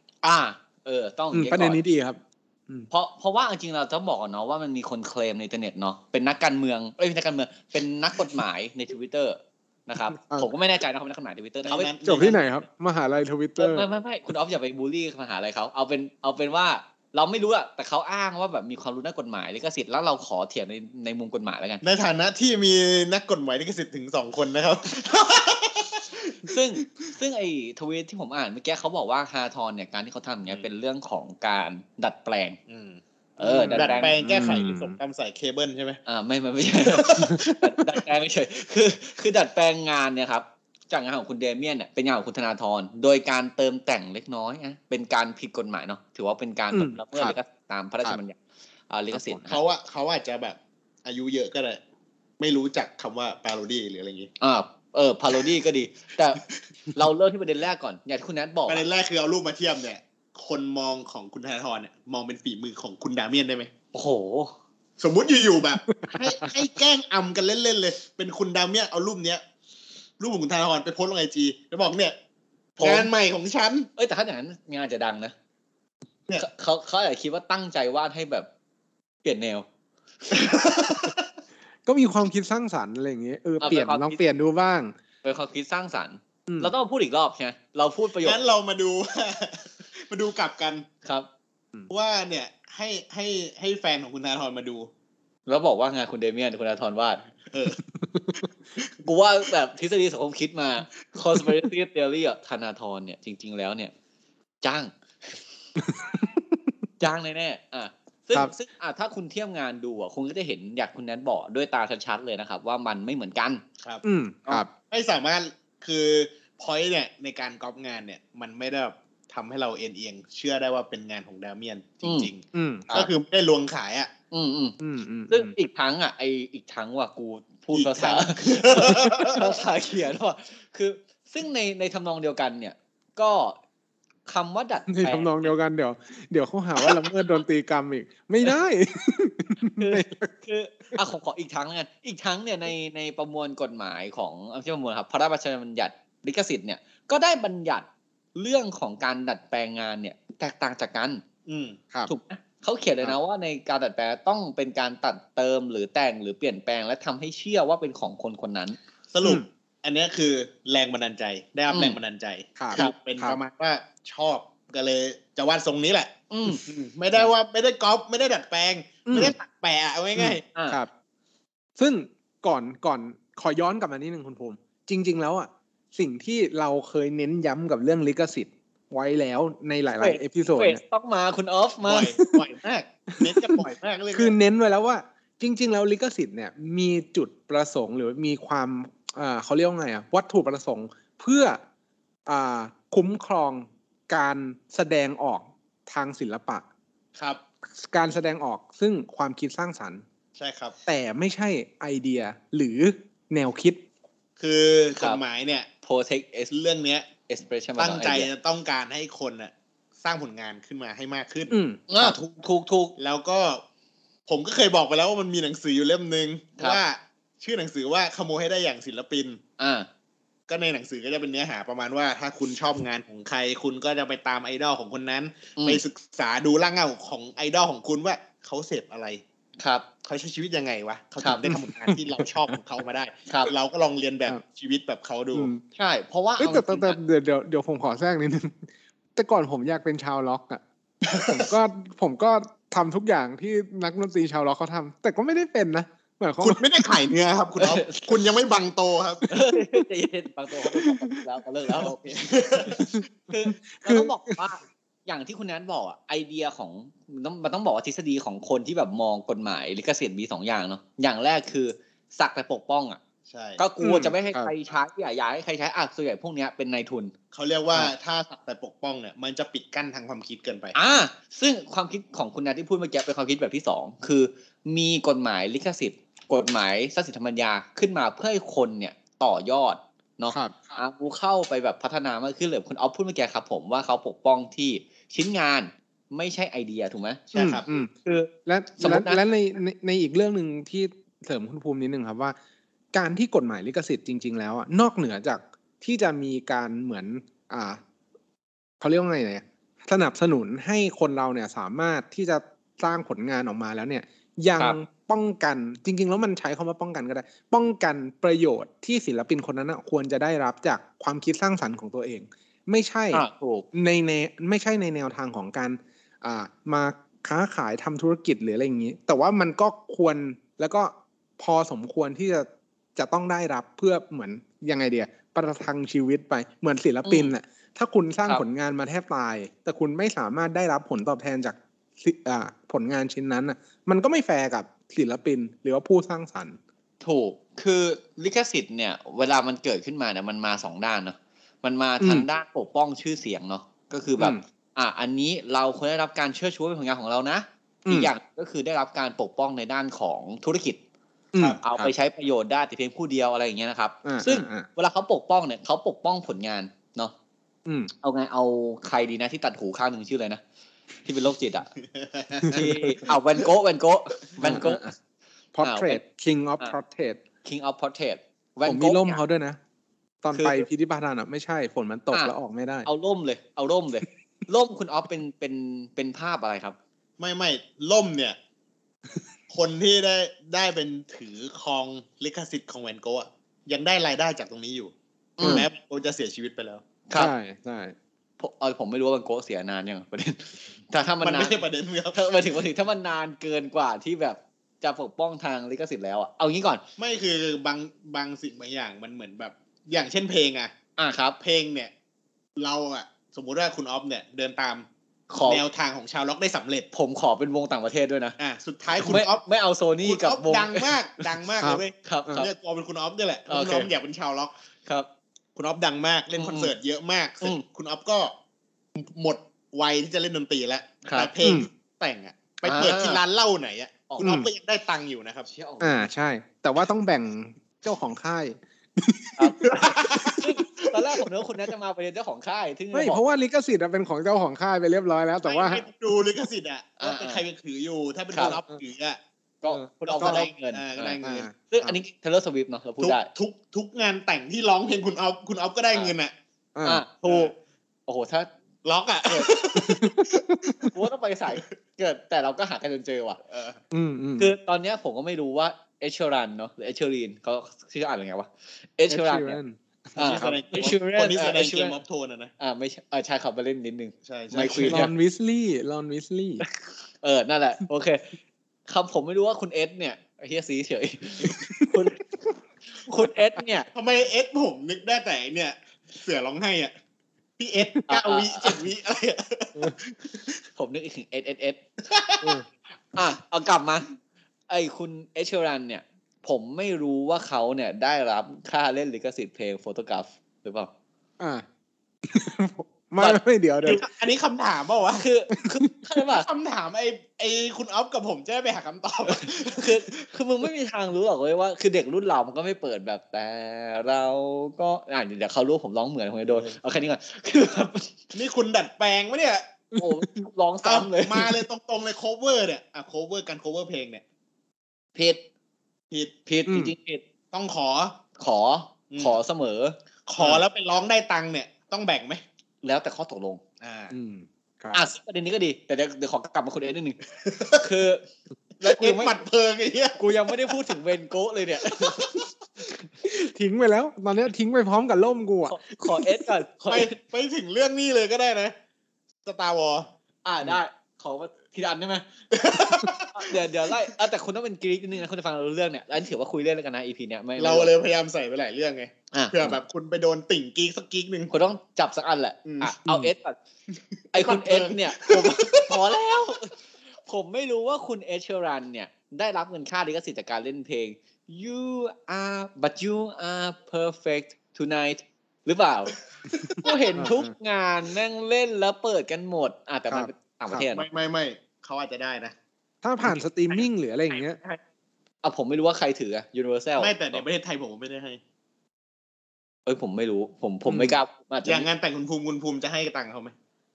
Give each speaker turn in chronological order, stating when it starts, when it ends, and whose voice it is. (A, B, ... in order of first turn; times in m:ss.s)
0:00.2-0:01.8 A
0:01.3-0:02.9 B
0:02.9-0:11.9 A
0:10.2-0:10.5 B
0:11.6-0:12.4 C
0:12.0-0:13.9 B
0:13.6-0:21.8 A
0:21.8-0:27.1 C
0:26.5-0:32.6 A
0:32.7-0:33.0 C
0:33.4-0:34.2 A
0:33.4-0:35.0 B
0:33.7-0:36.0 C
0:36.1-0:48.4 A
0:36.8-0:37.4 C
0:37.2-0:37.6 B
0:46.7-0:47.4 B
0:48.9-0:49.6 A
0:49.1-0:49.4 B
0:49.5-0:51.8 C
0:52.4-0:54.3 C
0:54.4-0:56.4 A
0:57.0-0:58.8 A
0:58.7-1:03.7 C
1:03.9-1:04.5 A
1:05.0-1:09.4 C
1:06.0-1:06.5 B
1:10.2-1:12.2 C
1:12.8-1:13.1 A
1:12.8-1:13.9 C
1:14.0-1:15.3 A
1:16.4-1:18.5 A
1:19.2-1:19.7 A
1:20.3-1:21.3 C
1:21.9-1:24.9 B
1:23.6-1:24.2 A
1:25.2-1:28.4 A
1:26.5-1:26.7 B
1:28.2-1:30.9 C
1:31.9-1:34.9 C
1:35.5-1:37.2 A
1:37.5-1:37.8 C
1:37.9-1:38.4 B
1:39.0-1:43.9 A
1:44.6-1:45.4 A
1:45.8-1:46.6 B
1:47.0-1:53.6 A
1:54.0-1:54.7 B
1:54.9-2:04.1 C
2:02.0-2:02.3 A
2:02.5-2:02.9 B
2:04.3-2:13.6 A
2:04.8-2:05.5 B
2:07.7-2:09.6 C
2:14.3-2:15.5 A
2:14.9-2:20.3 B
2:19.8-2:31.2 A
2:31.5-2:31.8 C
2:32.1-2:38.8 A
2:39.1-2:50.4 C
2:41.7-2:42.0 A
2:42.6-2:43.4 B
2:46.3-2:46.6 A
2:49.1-2:49.4 B
2:50.2-2:50.9 B
2:50.5-2:50.8 A
2:51.8-3:00.8 B
3:00.0-3:02.1 A
3:01.8-3:04.4 C
3:03.2-3:11.6 B
3:12.3-3:16.6 B
3:17.2-3:17.4 C
3:17.7-3:20.0 B
3:20.4-3:20.8 C
3:20.9-3:23.8 B
3:24.4-3:25.7 C
3:25.8-3:26.5 A
3:26.5-3:27.1 C
3:27.3-3:28.3 A
3:27.8-3:32.1 C
3:31.5-3:31.8 B
3:31.9-3:33.0 A
3:33.0-3:33.6 C
3:34.3-3:39.4 C
3:39.6-3:39.9 A
3:40.5-3:49.2 C
3:45.6-3:45.8 A
3:49.6-3:49.8 A
3:50.0-3:55.5 C
3:51.2-3:51.5 A
3:51.5-3:52.6 B
3:55.3-3:55.6 B
3:55.8-3:57.0 A
3:56.4-4:00.6 B
4:01.1-4:01.5 C
4:01.2-4:06.6 B
4:06.4-4:09.3 C
4:07.6-4:08.1 A
4:09.3-4:23.0 A
4:11.8-4:12.9 C
4:12.7-4:13.0 B
4:13.7-4:14.4 B
4:23.3-4:23.6 C
4:23.6-4:27.1 A
4:23.8-4:24.5 B
4:27.3-4:30.8 C
4:30.8-4:49.2 A
4:40.3-4:40.8 B
4:47.3-4:47.6 C
4:47.4-4:47.9 B
4:48.5-4:52.4 B
4:52.9-4:57.8 B
4:58.8-5:36.6 B
5:13.1-5:13.7 A
5:27.0-5:27.3 A
5:37.0-5:50.8 A
5:42.0-5:42.3 B
5:51.3-5:51.9 B
5:51.6-5:57.1 A
5:54.0-5:54.7 B
5:57.7-5:57.9 B
5:58.0-6:00.4 A
6:01.0-6:01.7 A
6:01.9-6:03.2 C
6:02.5-6:02.9 B
6:02.5-6:04.9 A
6:04.4-6:04.9 B
6:05.6-6:07.2 B
6:05.6-6:06.0 A
6:07.4-6:09.2 A
6:08.6-6:09.6 B
6:10.2-6:12.9 B
6:10.3-6:10.7 A
6:12.9-6:16.8 A
6:17.2-6:18.4 C
6:19.5-6:26.8 C
6:25.4-6:25.7 A
6:25.4-6:25.7 B
6:27.2-6:27.9 B
6:28.4-6:31.6 A
6:31.2-6:32.3 C
6:32.1-6:36.8 A
6:37.0-6:40.7 C
6:41.0-6:41.4 A
6:41.4-6:41.9 C
6:42.6-6:44.9 C
6:45.3-6:45.6 A
6:45.4-6:46.9 C
6:46.9-6:48.4 A
6:48.4-6:49.4 C
6:48.9-6:51.5 A
6:50.0-6:54.5 C
6:51.6-6:52.5 B
6:52.0-6:52.5 A
6:53.5-6:53.9 A
6:55.6-6:58.3 C
6:56.4-6:56.7 A
6:59.0-7:05.5 C
7:01.0-7:01.3 A
7:01.4-7:01.7 B
7:02.6-7:03.2 A
7:04.1-7:04.4 A
7:04.2-7:04.5 B
7:05.5-7:06.1 A
7:05.8-7:10.4 B
7:09.4-7:13.2 A
7:09.6-7:11.3 C
7:12.9-7:15.8 B
7:15.4-7:19.2 C
7:17.0-7:17.4 A
7:18.3-7:18.6 A
7:18.4-7:18.8 B
7:19.6-7:23.3 A
7:19.7-7:20.4 B
7:20.1-7:21.5 C
7:21.2-7:22.0 B
7:23.0-7:26.3 C
7:26.8-7:27.0 B
7:26.8-7:27.5 A
7:27.3-7:27.5 C
7:28.1-7:28.5 A
7:28.8-7:30.9 C
7:29.3-7:29.6 A
7:29.8-7:30.9 B
7:30.9-7:33.4 A
7:33.5-7:33.8 C
7:33.9-7:34.5 B
7:34.4-7:39.6 A
7:39.1-7:40.5 B
7:40.2-7:42.0 A
7:40.2-7:42.5 C
7:42.6-7:45.1 A
7:44.2-7:45.0 C
7:44.8-7:46.6 B
7:46.6-7:48.3 A
7:48.9-7:52.3 A
7:51.4-7:51.9 B
7:52.9-7:53.9 A
7:53.9-7:56.9 C
7:57.6-8:00.6 C
7:58.1-7:58.8 A
8:00.8-8:01.8 A
8:02.0-8:02.6 C
8:03.1-8:04.1 A
8:04.7-8:10.9 A
8:11.4-8:11.6 B
8:12.2-8:14.0 B
8:13.8-8:15.2 C
8:15.2-8:16.5 A
8:16.4-8:20.3 C
8:19.3-8:28.2 A
8:26.5-8:26.8 C
8:28.3-8:29.7 C
8:29.9-8:30.3 B
8:30.0-8:31.5 A
8:30.8-8:34.2 C
8:35.2-8:35.4 A
8:36.5-8:37.2 A
8:36.7-8:36.9 B
8:37.5-8:38.2 C
8:38.4-8:40.0 A
8:39.1-8:39.4 C
8:40.3-8:42.4 C
8:42.8-8:43.6 A
8:43.8-8:44.1 C
8:44.1-8:45.1 B
8:44.9-8:47.2 A
8:47.4-8:47.8 C
8:47.8-8:48.3 A
8:48.8-8:50.7 C
8:48.8-8:49.4 A
8:50.2-8:52.4 A
8:52.0-8:52.5 C
8:53.2-8:55.8 B
8:55.7-8:57.2 A
8:56.9-8:58.7 C
8:59.4-9:00.1 C
9:00.4-9:02.3 A
9:02.5-9:03.9 C
9:03.3-9:07.9 A
9:07.6-9:11.5 C
9:09.3-9:09.7 A
9:11.5-9:13.6 A
9:12.6-9:13.0 C
9:13.1-9:13.3 B
9:14.3-9:26.2 A
9:14.3-9:16.0 C
9:26.6-9:27.2 C
9:26.7-9:27.5 B
9:26.8-9:31.0 A
9:30.1-9:30.8 B
9:30.9-9:32.6 C
9:33.0-9:34.6 B
9:35.4-9:37.4 A
9:37.0-9:38.4 C
9:39.9-9:41.9 A
9:40.9-9:41.2 B
9:41.6-9:43.5 C